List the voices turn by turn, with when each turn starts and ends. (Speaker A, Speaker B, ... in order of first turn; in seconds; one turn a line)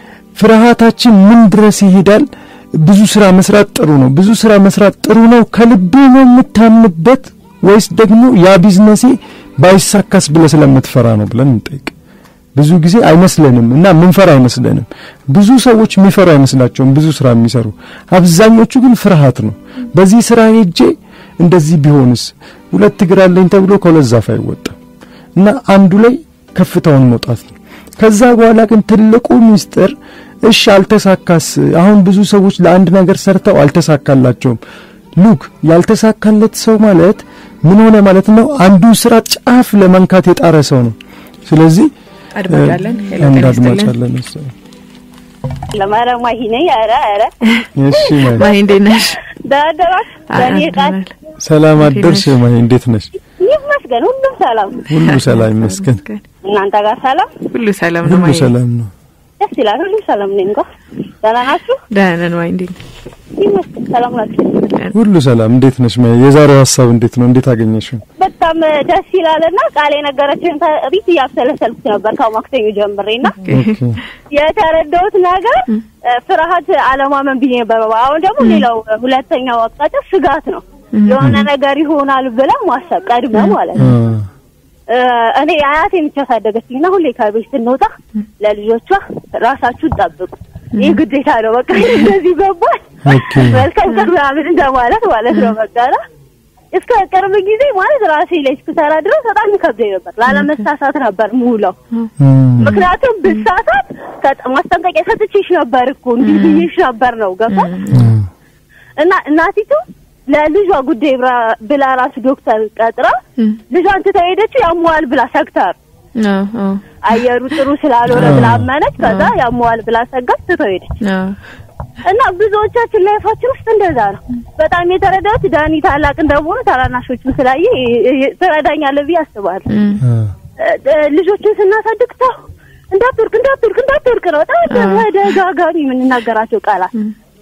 Speaker A: 0.3-11.9
Speaker A: 12.6-24.8
Speaker A: 25.4-34.6
Speaker A: 35.2-41.9
Speaker B: 42.4-44.0
Speaker A: 42.5-44.5
Speaker C: 45.7-48.6
Speaker A: 47.8-48.5
Speaker B: 48.2-49.2
Speaker C: 49.3-51.0
Speaker B: 50.3-51.1
Speaker A: 51.4-53.1
Speaker B: 51.8-52.4
Speaker C: 53.4-54.9
Speaker A: 54.9-56.0
Speaker B: 55.1-56.2
Speaker C: 56.4-57.3
Speaker B: 57.5-58.5
Speaker A: 58.0-58.9
Speaker C: 59.4-60.7
Speaker C: 61.2-61.8
Speaker B: 61.9-62.8
Speaker C: 63.4-64.7
Speaker A: 64.9-68.0
Speaker C: 68.2-73.4
Speaker B: 73.4-73.8
Speaker A: 73.5-74.0
Speaker C: 74.3-84.0
Speaker B: 81.0-81.3
Speaker A: 81.2-81.4
Speaker B: 83.3-83.9
Speaker A: 83.8-84.3
Speaker C: 84.9-96.0
Speaker B: 90.8-91.0
Speaker A: 93.0-93.7
Speaker C: 96.7-101.8
Speaker B: 100.3-100.6
Speaker A: 102.2-102.8
Speaker C: 102.6-107.7
Speaker B: 102.6-103.4
Speaker B: 106.2-106.7
Speaker B: 107.5-108.1
Speaker A: 107.9-108.3
Speaker C: 109.0-115.8
Speaker B: 116.2-116.8
Speaker C: 117.0-120.9
Speaker A: 118.1-118.7
Speaker B: 119.0-119.3
Speaker B: 121.0-121.4
Speaker C: 122.0-129.7
Speaker B: 129.7-130.0
Speaker A: 130.0-130.3
Speaker C: 130.6-136.9
Speaker B: 134.7-135.1